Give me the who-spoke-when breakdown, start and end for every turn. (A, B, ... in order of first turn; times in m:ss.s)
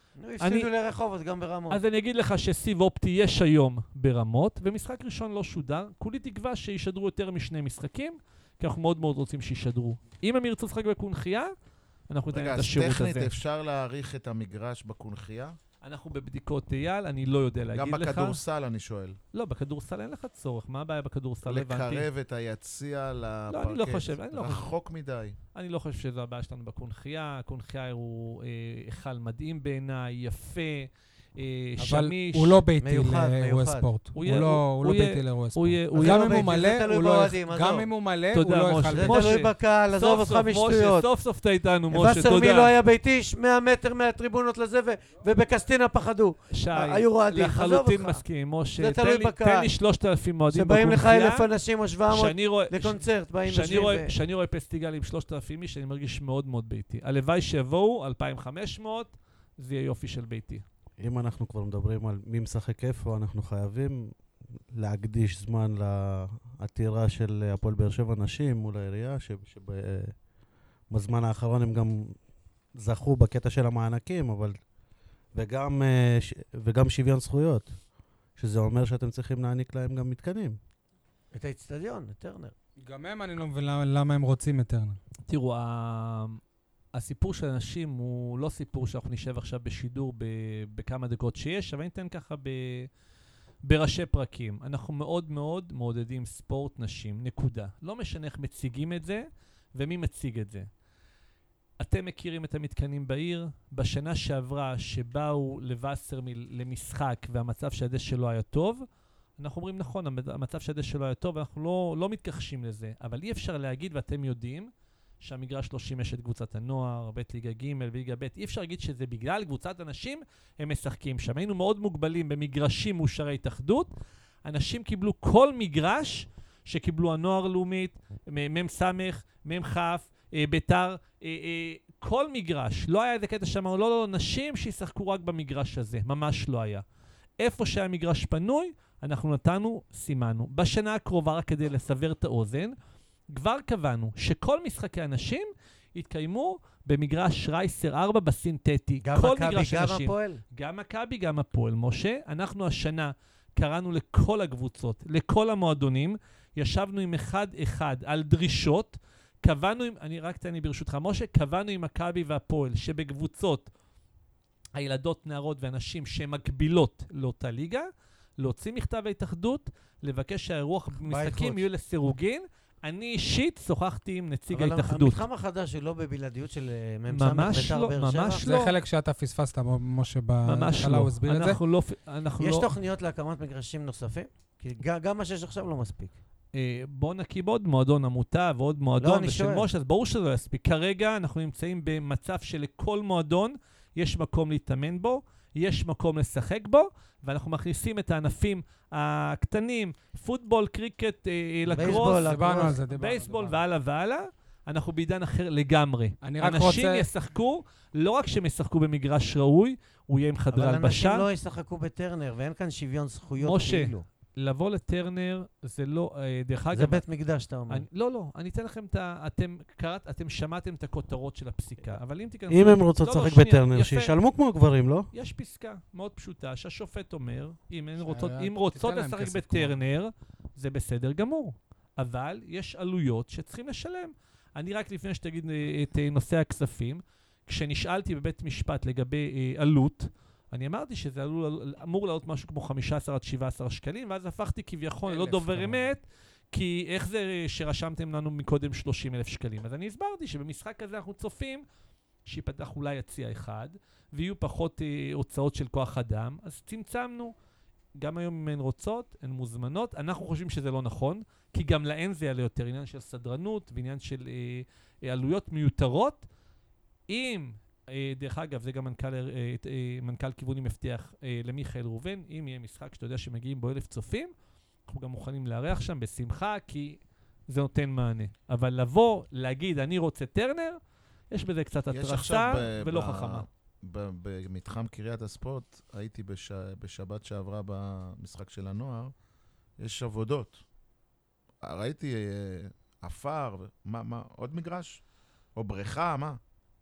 0:00.2-0:01.8 A
0:00.4-0:00.7 B
0:01.7-0:11.5 B
0:12.1-0:13.4 B
0:12.3-0:15.6 C
0:15.8-0:18.4 B
0:17.7-0:19.2 C
0:19.3-0:22.1 B
0:21.4-0:25.4 C
0:23.5-0:24.7 B
0:25.5-0:32.6 B
0:31.8-0:39.3 D
0:32.8-0:33.8 A
0:34.1-0:36.5 B
0:35.9-0:37.9 A
0:38.3-0:42.7 B
0:38.9-0:41.1 A
0:41.9-0:48.2 A
0:46.5-0:51.5 B
0:48.8-0:49.7 A
0:50.5-0:54.1 A
0:52.1-1:00.6 B
1:01.0-1:04.1 E
1:04.7-1:10.2 E
1:10.9-1:12.2 E
1:12.7-1:14.6 E
1:15.3-1:17.8 E
1:18.4-1:20.6 E
1:21.3-1:22.5 A
1:22.8-1:25.0 D
1:25.3-1:26.4 B
1:26.9-1:32.9 B
1:33.6-1:40.7 B
1:41.8-1:48.8 B
1:49.4-1:54.7 B
1:55.2-2:03.9 B
2:04.4-2:16.8 B
2:17.4-2:22.7 B
2:23.3-2:43.7 B
2:29.0-2:30.4 A
2:44.7-2:47.9 B
2:48.4-2:55.2 B
2:51.0-2:51.6 A
2:54.5-2:58.5 A
2:57.1-2:58.7 B
2:58.4-3:01.6 D
3:00.4-3:02.7 B
3:02.4-3:06.1 A
3:06.5-3:31.2 B
3:09.0-3:09.7 A
3:21.7-3:22.8 A
3:21.8-3:23.6 D
3:26.2-3:27.1 D
3:30.5-3:34.0 A
3:33.4-3:37.0 B
3:36.7-3:37.8 A
3:37.7-3:44.1 B
3:42.5-3:45.1 E
3:45.1-4:11.6 B
3:48.0-3:49.8 D
4:05.1-4:05.7 C
4:12.3-4:17.3 B
4:18.0-4:26.3 B
4:27.1-4:34.3 B
4:34.9-4:40.8 B
4:41.3-4:43.4 B
4:41.9-4:49.1 C
4:49.8-4:50.6 C
4:51.6-4:55.0 C
4:55.6-4:56.4 C